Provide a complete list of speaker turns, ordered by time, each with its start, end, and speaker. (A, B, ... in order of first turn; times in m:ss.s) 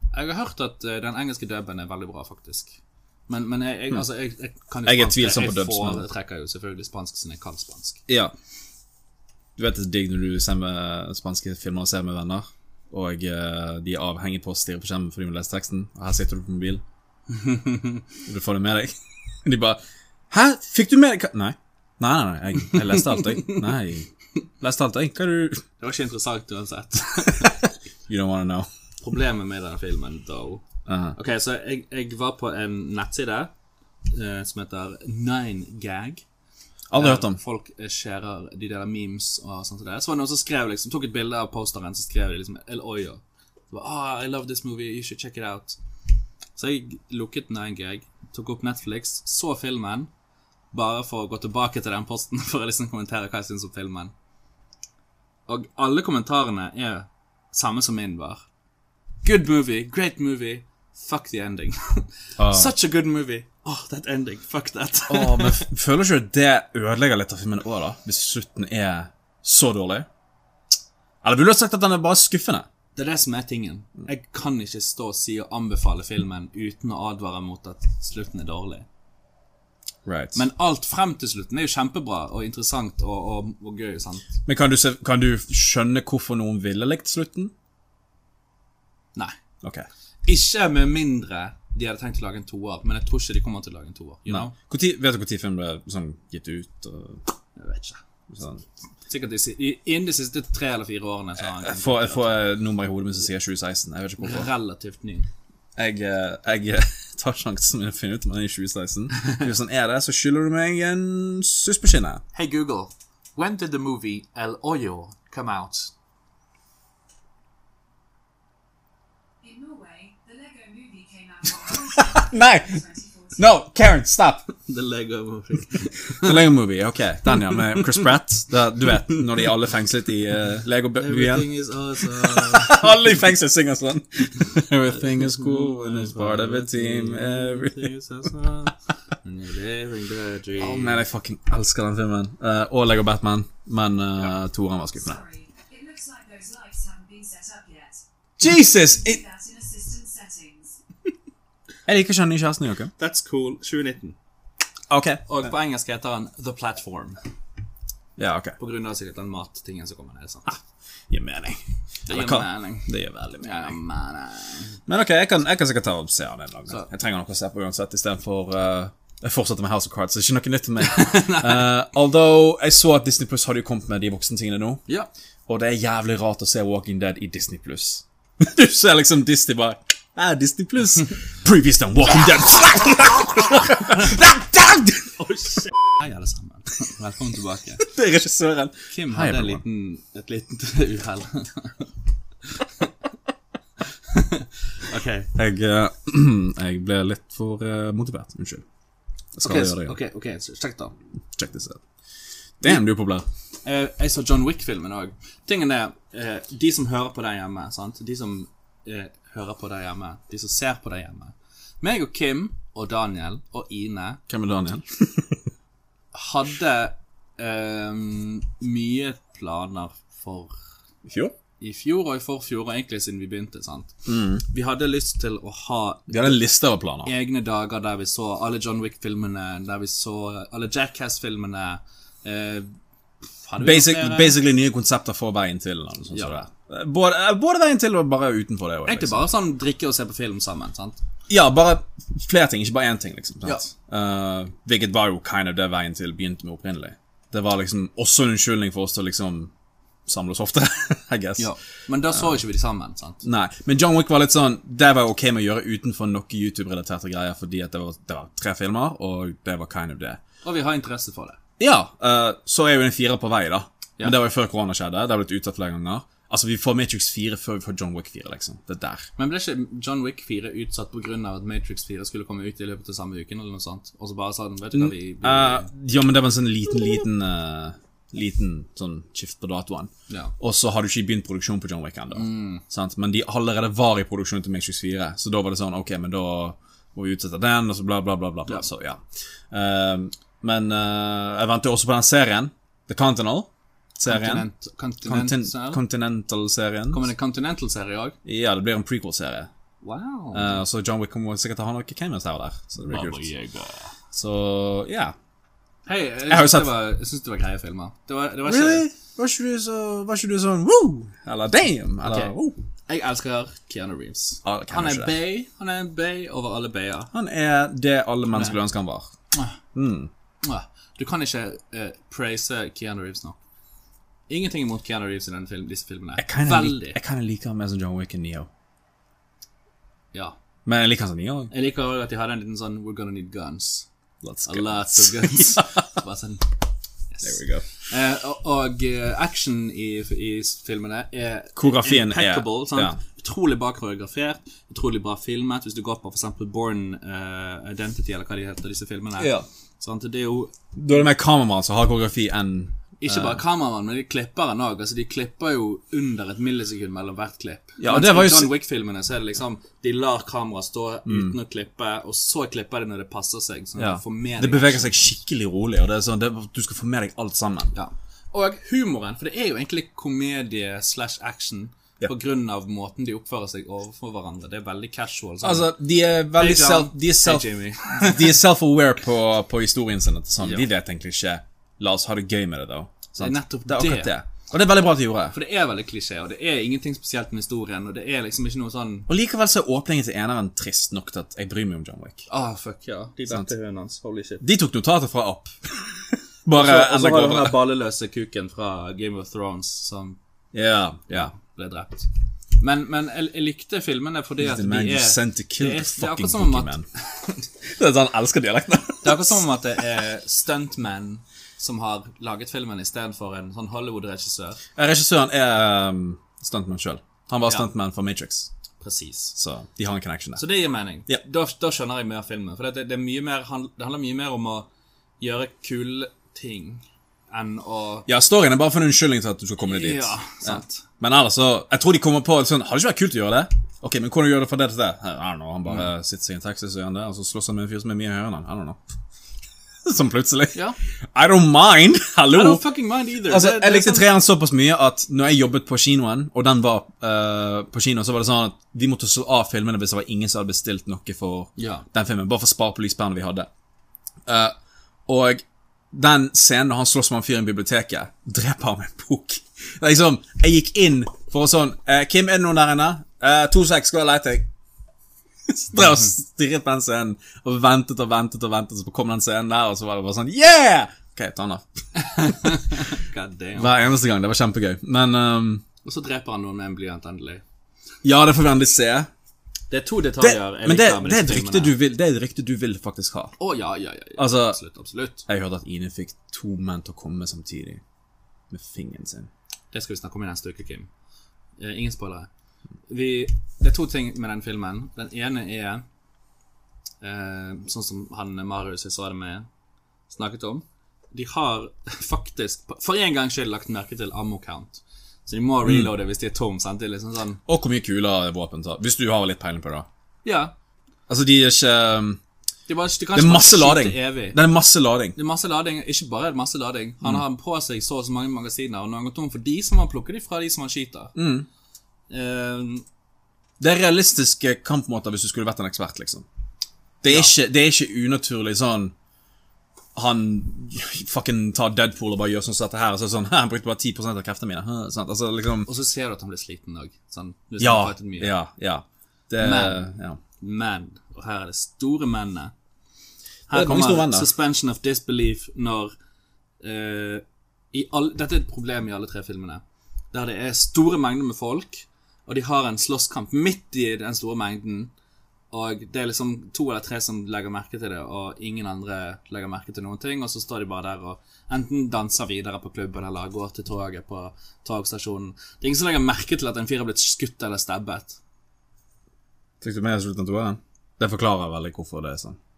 0:00.1-0:08.0 A
0:04.8-0:06.0 B
0:08.1-0:08.3 B
0:09.6-0:16.8 B
0:17.3-0:18.0 A
0:18.2-0:24.1 B
0:22.9-0:23.6 A
0:24.6-0:25.6 B
0:25.8-0:27.6 A
0:28.1-0:28.7 B
0:29.0-0:30.6 A
0:30.9-0:31.2 B
0:31.1-0:33.5 A
0:34.1-0:36.2 A
0:36.9-0:37.4 B
0:36.9-0:45.8 A
0:46.6-0:50.1 A
0:50.7-0:54.1 A
0:55.5-0:58.4 A
0:59.2-1:05.7 A
1:02.4-1:02.7 B
1:05.1-1:10.1 B
1:11.2-1:12.7 B
1:13.0-1:18.9 A
1:20.0-1:20.4 B
1:20.3-1:24.3 A
1:24.4-1:27.5 B
1:30.2-1:34.5 A
1:34.3-1:37.2 B
1:37.6-1:38.0 A
1:38.3-1:38.6 B
1:39.0-1:42.4 A
1:41.4-1:44.5 B
1:44.2-1:45.3 A
1:45.8-1:52.2 B
1:52.3-1:55.9 A
1:59.4-2:03.4 C
2:01.8-2:02.8 B
2:03.4-2:04.4 B
2:04.6-2:06.4 A
2:06.2-2:11.4 B
2:07.5-2:08.1 A
2:10.9-2:12.9 A
2:12.2-2:17.9 B
2:15.1-2:21.0 A
2:20.6-2:25.2 B
2:25.0-2:30.8 C
2:28.4-2:29.2 B
2:31.8-2:32.9 B
2:33.0-2:34.2 A
2:34.9-2:35.5 B
2:35.3-2:37.2 A
2:38.2-2:38.6 B
2:38.6-2:40.6 A
2:41.1-2:43.7 B
2:42.1-2:44.8 A
2:44.9-2:54.8 B
2:50.8-2:51.7 A
2:55.5-3:05.2 B
3:05.2-3:07.9 A
3:07.8-3:09.6 B
3:08.9-3:11.9 A
3:12.5-3:12.9 A
3:14.0-3:15.3 A
3:15.3-3:18.6 B
3:19.4-3:19.9 B
3:19.4-3:20.9 A
3:21.4-3:21.8 B
3:22.6-3:23.2 B
3:23.6-3:34.2 A
3:34.3-3:35.4 B
3:36.1-3:40.5 A
3:41.0-3:41.3 B
3:41.6-3:46.4 A
3:44.0-3:44.4 B
3:46.1-3:47.1 B
3:47.0-3:52.7 A
3:53.4-3:54.4 A
3:53.6-3:59.2 B
3:56.1-3:56.4 A
3:58.8-4:01.0 A
4:01.3-4:09.5 B
4:10.1-4:11.5 B
4:11.4-4:13.2 A
4:13.2-4:20.2 B
4:20.4-4:21.4 A
4:21.6-4:29.1 B
4:29.2-4:35.7 A
4:34.7-4:54.5 B
4:42.1-4:42.6 A
4:54.1-4:55.8 A
4:55.0-4:57.0 B
4:56.9-4:58.2 A
4:58.2-4:59.5 B
4:59.8-5:00.6 A
5:00.3-5:03.3 B
5:02.8-5:03.9 A
5:04.1-5:05.1 B
5:05.8-5:08.9 A
5:06.3-5:06.7 B
5:08.4-5:12.6 B
5:12.0-5:12.3 A
5:12.9-5:17.1 A
5:14.4-5:15.1 B
5:17.1-5:19.1 B
5:19.7-5:20.1 B
5:20.4-5:23.4 A
5:24.3-5:27.0 A
5:26.2-5:28.5 B
5:30.6-5:31.5 B
5:31.5-5:33.9 A
5:34.2-5:35.9 B
5:34.4-5:36.6 A
5:37.1-5:50.5 A
5:37.2-5:37.6 B
5:41.6-5:43.0 B
5:49.2-5:49.4 B
5:50.7-5:53.4 B
5:53.0-6:05.2 A
5:57.8-5:58.5 B
6:01.0-6:01.3 B
6:03.8-6:07.7 B
6:07.7-6:15.8 A
6:15.4-6:25.4 B
6:16.3-6:18.4 A
6:23.2-6:24.1 A
6:25.3-6:29.1 A
6:29.1-6:32.3 B
6:32.3-6:34.4 A
6:34.4-6:37.6 B
6:36.5-6:40.2 A
6:40.5-6:41.3 B
6:41.1-6:42.1 A
6:42.6-6:46.7 A
6:44.4-6:46.9 B
6:47.6-6:49.4 B
6:49.0-6:54.6 A
6:54.8-6:58.5 B
6:58.8-6:59.3 A
6:59.4-7:00.4 B
7:00.4-7:04.7 A
7:05.2-7:08.1 A
7:08.1-7:18.8 B
7:09.6-7:10.8 A
7:19.8-7:20.6 B
7:21.1-7:22.6 B
7:22.3-7:24.1 A
7:23.2-7:33.5 B
7:31.6-7:31.8 A
7:34.2-7:34.5 B
7:35.1-7:44.5 B
7:45.5-7:51.6 B
7:52.0-7:53.7 A
7:52.2-7:52.5 B
7:53.6-7:55.6 B
7:55.8-7:57.4 A
7:58.0-7:59.1 B
7:59.7-8:01.8 A
8:00.2-8:03.3 B
8:03.4-8:05.2 A
8:04.2-8:04.6 B
8:05.2-8:07.8 B
8:08.5-8:09.3 B
8:09.7-8:10.9 A
8:11.6-8:12.3 A
8:12.9-8:15.8 A
8:17.0-8:19.4 A
8:20.1-8:27.4 A
8:27.5-8:29.9 B
8:30.2-8:30.5 A
8:31.1-8:32.2 B
8:32.7-8:34.4 A
8:33.1-8:35.2 B
8:35.2-8:41.1 A
8:41.2-8:41.5 B
8:42.1-8:42.8 A
8:43.6-8:46.2 B
8:47.0-8:48.9 B
8:49.9-8:55.7 B
8:55.6-8:58.3 A
8:57.6-9:00.2 B
8:59.4-8:59.8 A
9:00.4-9:02.5 A
9:03.5-9:05.9 A
9:03.5-9:04.3 B
9:06.6-9:14.9 A
9:15.5-9:28.2 A
9:29.6-9:32.4 B